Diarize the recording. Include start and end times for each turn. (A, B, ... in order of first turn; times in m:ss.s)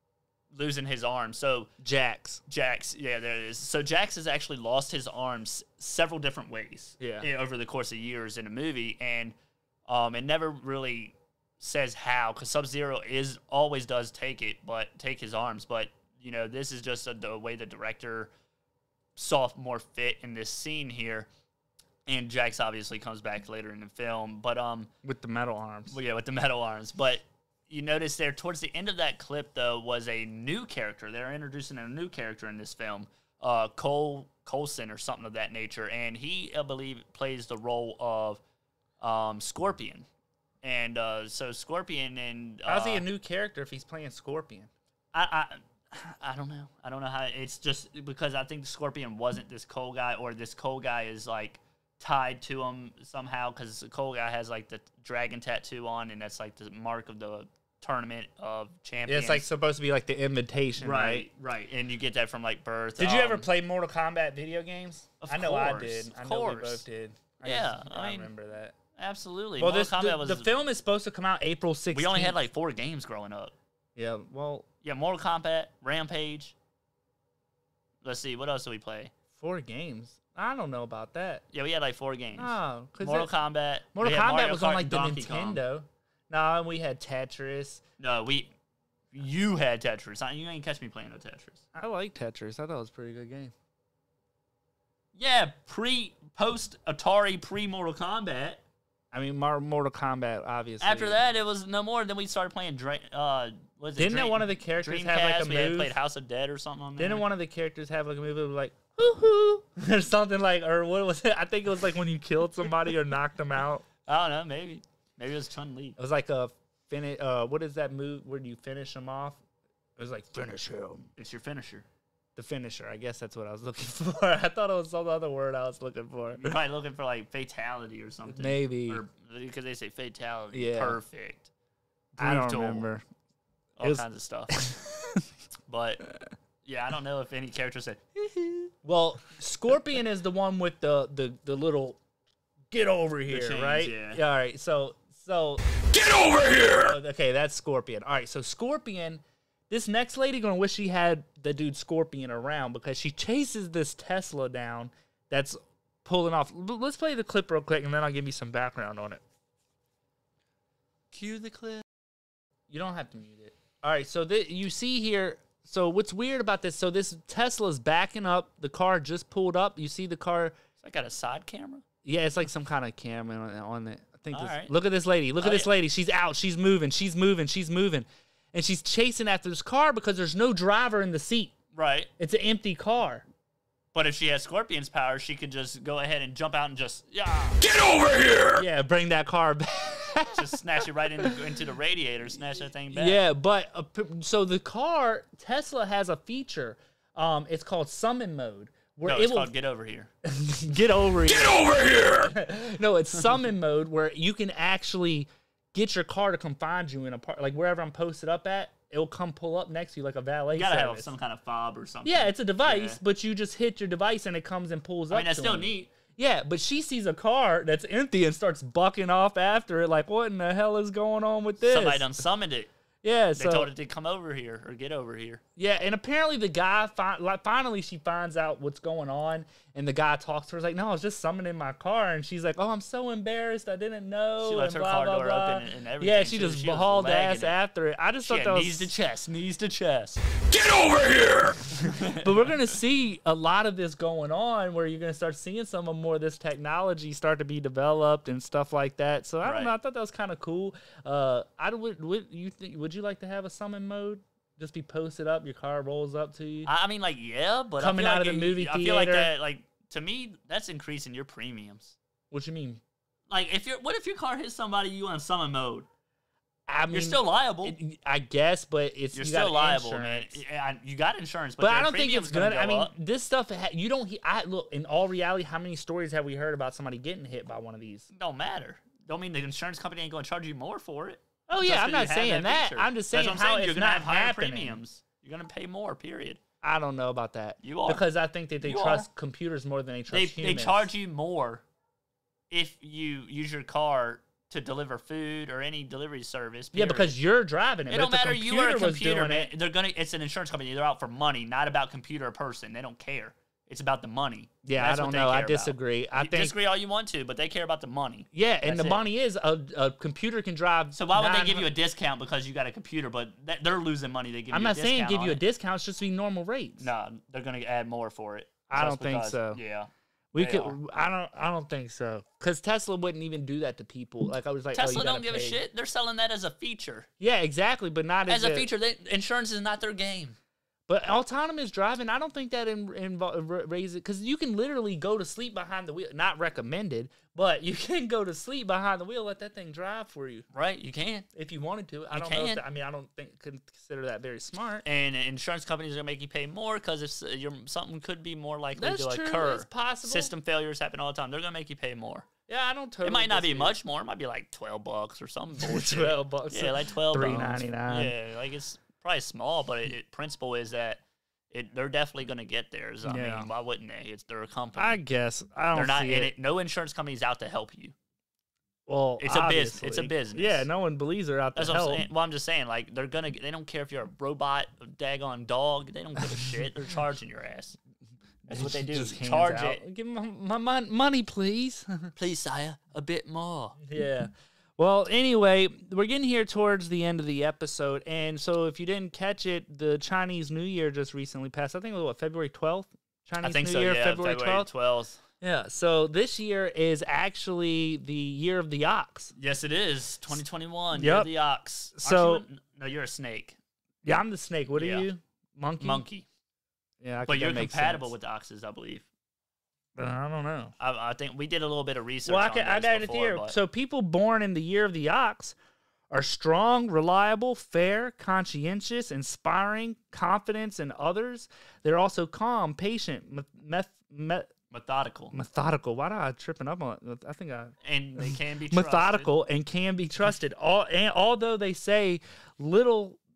0:00.5-0:01.7 A
0:01.8-0:02.4 B
0:02.5-0:09.4 A
0:07.0-0:07.3 B
0:09.9-0:18.3 A
0:19.2-0:21.3 A
0:22.1-0:24.9 A
0:25.0-0:26.0 B
0:25.9-0:38.4 A
0:39.0-0:40.1 A
0:40.6-0:43.0 A
0:42.7-0:44.7 B
0:45.1-0:59.5 A
0:59.1-1:01.3 B
1:00.8-1:03.5 A
1:03.0-1:08.7 B
1:05.2-1:06.8 A
1:07.4-1:08.3 A
1:09.0-1:10.5 A
1:09.6-1:12.4 B
1:11.9-1:13.5 A
1:14.0-1:14.7 B
1:14.8-1:16.6 A
1:18.0-1:19.1 A
1:19.4-1:21.4 B
1:21.5-1:25.6 A
1:22.4-1:23.3 B
1:23.9-1:27.8 B
1:28.0-1:28.5 A
1:29.1-1:31.6 A
1:31.7-1:33.5 B
1:35.2-1:38.6 A
1:39.1-1:41.2 B
1:40.8-1:47.2 A
1:44.0-1:46.0 B
1:47.0-1:53.8 B
1:54.1-1:56.0 A
1:56.0-1:59.4 B
2:00.0-2:01.1 B
2:01.2-2:01.9 A
2:02.4-2:06.6 B
2:06.4-2:11.5 A
2:08.3-2:09.0 B
2:10.5-2:11.0 B
2:12.2-2:12.9 A
2:12.2-2:13.0 B
2:13.8-2:14.5 A
2:13.8-2:15.3 B
2:15.7-2:16.0 A
2:16.6-2:18.7 A
2:18.8-2:22.0 B
2:22.7-2:39.2 B
2:23.3-2:24.2 A
2:41.1-2:41.8 A
2:42.7-2:50.6 B
2:50.8-2:51.8 A
2:52.0-3:01.6 B
2:54.3-2:54.7 A
2:55.4-2:55.7 A
3:01.7-3:02.1 A
3:02.2-3:03.3 B
3:03.9-3:08.5 A
3:08.5-3:10.5 B
3:10.3-3:13.2 A
3:12.9-3:19.5 B
3:19.1-3:20.1 A
3:20.2-3:31.1 B
3:30.5-3:33.0 A
3:32.0-3:42.1 B
3:35.1-3:35.9 A
3:41.6-3:42.7 A
3:43.0-3:43.7 B
3:43.4-3:45.4 A
3:45.6-3:58.9 B
3:54.4-3:57.6 A
3:58.2-4:02.5 A
4:02.2-4:16.7 B
4:09.4-4:09.7 A
4:16.6-4:22.0 A
4:17.8-4:19.3 B
4:22.3-4:22.8 B
4:23.3-4:25.9 A
4:26.7-4:30.4 B
4:26.9-4:27.8 A
4:29.1-4:32.9 A
4:31.6-4:38.1 B
4:38.1-4:46.4 A
4:41.5-4:44.8 B
4:46.6-4:50.9 B
4:47.6-4:48.0 A
4:48.6-4:49.1 A
4:50.1-4:51.6 A
4:52.5-4:57.2 A
4:56.7-4:59.5 B
4:57.9-5:09.0 A
5:04.6-5:06.6 B
5:08.3-5:11.7 B
5:10.9-5:15.4 A
5:14.5-5:16.9 B
5:16.8-5:20.8 A
5:18.7-5:19.6 B
5:20.3-5:25.6 B
5:24.7-5:27.1 A
5:27.2-5:28.7 B
5:28.3-5:30.4 A
5:30.9-5:40.5 B
5:40.5-5:41.3 A
5:41.4-5:44.8 B
5:42.1-5:42.6 A
5:44.8-5:52.3 A
5:48.8-5:50.3 B
5:52.5-5:53.8 B
5:53.0-6:05.0 A
5:55.6-5:58.1 B
6:03.0-6:03.5 B
6:04.8-6:06.3 B
6:05.7-6:07.9 A
6:08.9-6:12.1 B
6:09.2-6:10.7 A
6:11.6-6:17.8 A
6:18.5-6:22.1 B
6:18.5-6:19.8 A
6:22.2-6:23.8 A
6:23.8-6:34.7 B
6:33.4-6:35.2 A
6:35.4-6:39.3 B
6:39.4-6:43.6 A
6:41.0-6:41.3 B
6:42.0-6:42.4 B
6:44.0-6:46.0 B
6:44.7-6:45.1 A
6:45.8-6:46.3 A
6:47.0-6:48.1 B
6:47.3-6:49.0 A
6:50.0-6:50.7 B
6:50.8-6:53.6 A
6:52.2-6:55.6 B
6:56.1-7:04.5 B
7:04.7-7:05.4 A
7:05.3-7:13.2 B
7:07.8-7:09.3 A